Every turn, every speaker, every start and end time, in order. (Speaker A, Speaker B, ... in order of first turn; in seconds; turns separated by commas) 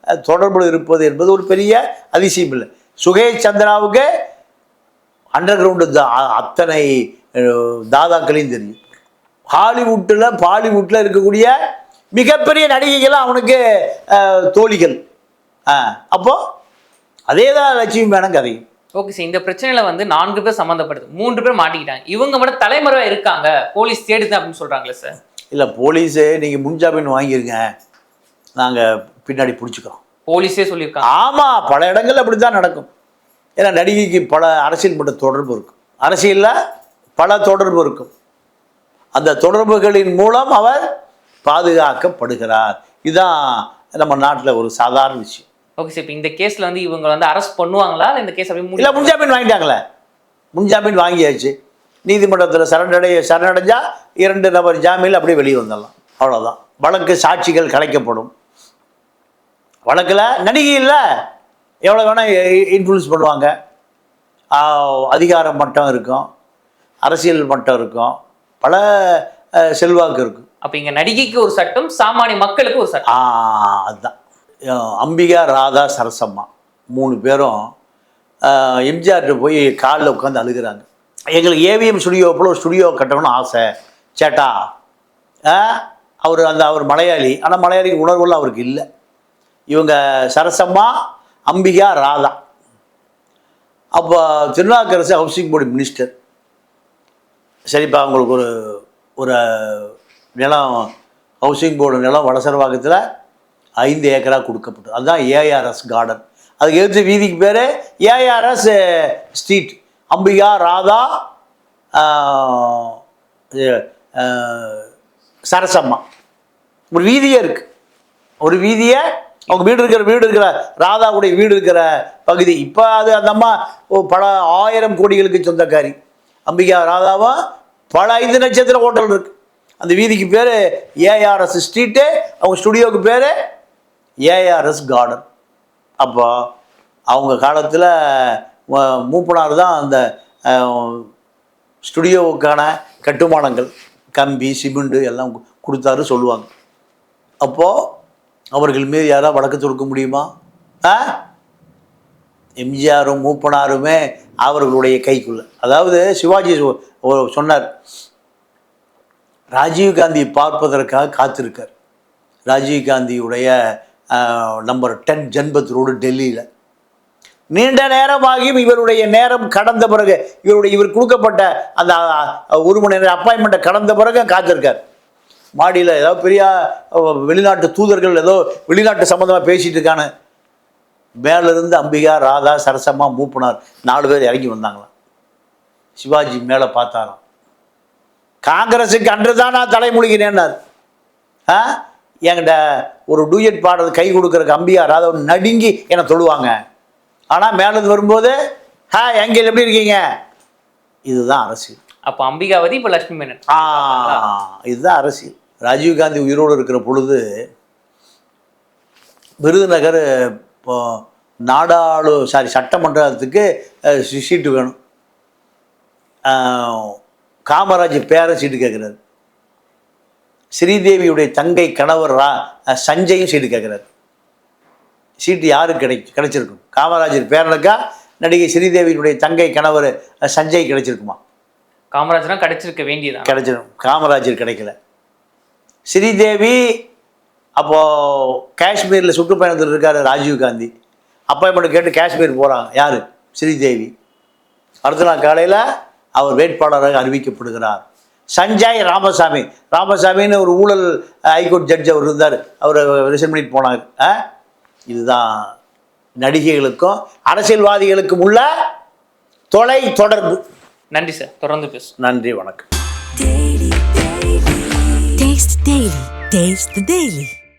Speaker A: 0.2-4.0, Speaker A: 5.3-6.9, Speaker A: 7.4-8.8, Speaker A: 9.5-11.5, Speaker A: 12.1-15.0, Speaker A: 15.7-16.4, Speaker A: 17.3-18.6, Speaker B: 19.0-25.2, Speaker A: 25.5-27.6, Speaker A: 28.6-30.0, Speaker B: 30.3-31.1, Speaker A: 31.1-32.9, Speaker A: 33.6-36.5, Speaker A: 37.2-38.1, Speaker A: 39.1-40.8, Speaker A: 41.5-45.5, Speaker B: 45.8-49.3, Speaker A: 48.8-49.8, Speaker A: 50.5-51.5, Speaker A: 52.1-58.3, Speaker A: 59.9-61.0, Speaker A: 61.9-63.5, Speaker A: 64.6-66.3, Speaker A: 67.1-69.2, Speaker A: 69.7-70.5, Speaker B: 70.6-73.1, Speaker A: 73.1-74.2, Speaker A: 74.7-77.6, Speaker A: 78.5-83.7, Speaker A: 84.2-84.5, Speaker A: 85.5-88.8, Speaker A: 89.7-90.9, Speaker A: 91.5-92.3, Speaker A: 94.0-96.1, Speaker A: 97.7-100.9, Speaker A: 101.4-103.0, Speaker A: 103.8-111.0, Speaker A: 112.0-113.0, Speaker A: 113.6-114.9, Speaker A: 115.5-116.0, Speaker A: 116.9-117.7, Speaker A: 118.4-125.9, Speaker A: 126.5-127.4, Speaker A: 127.9-133.3, Speaker A: 134.3-135.2, Speaker A: 136.0-136.3, Speaker A: 137.1-141.1, Speaker A: 141.8-146.5, Speaker A: 147.4-147.7, Speaker A: 148.6-150.3, Speaker A: 150.8-151.1, Speaker A: 152.6-157.7, Speaker A: 159.6-161.7, Speaker A: 162.5-163.5, Speaker A: 164.2-166.4, Speaker A: 167.5-174.8, Speaker A: 175.6-180.1, Speaker A: 181.2-184.9, Speaker A: 186.0-187.2, Speaker A: 188.4-190.5, Speaker A: 192.3-196.6, Speaker A: 197.3-198.3, Speaker A: 198.9-200.0, Speaker A: 201.1-201.8, Speaker B: 202.1-204.3, Speaker A: 203.5-207.2, Speaker A: 209.4-210.0, Speaker A: 210.7-214.8, Speaker A: 216.3-217.0, Speaker A: 217.5-219.0, Speaker A: 220.6-223.8, Speaker A: 225.2-231.2, Speaker B: 231.9-233.4, Speaker A: 233.3-234.7, Speaker A: 235.9-236.6, Speaker A: 237.6-240.7, Speaker A: 241.3-243.9, Speaker A: 244.8-245.6, Speaker A: 246.2-247.8, Speaker A: 248.4-254.2, Speaker A: 254.9-255.5, Speaker A: 256.2-258.4, Speaker A: 259.5-260.4, Speaker B: 260.9-261.9, Speaker A: 262.0-262.6, Speaker C: 263.6-264.0, Speaker C: 265.0-267.4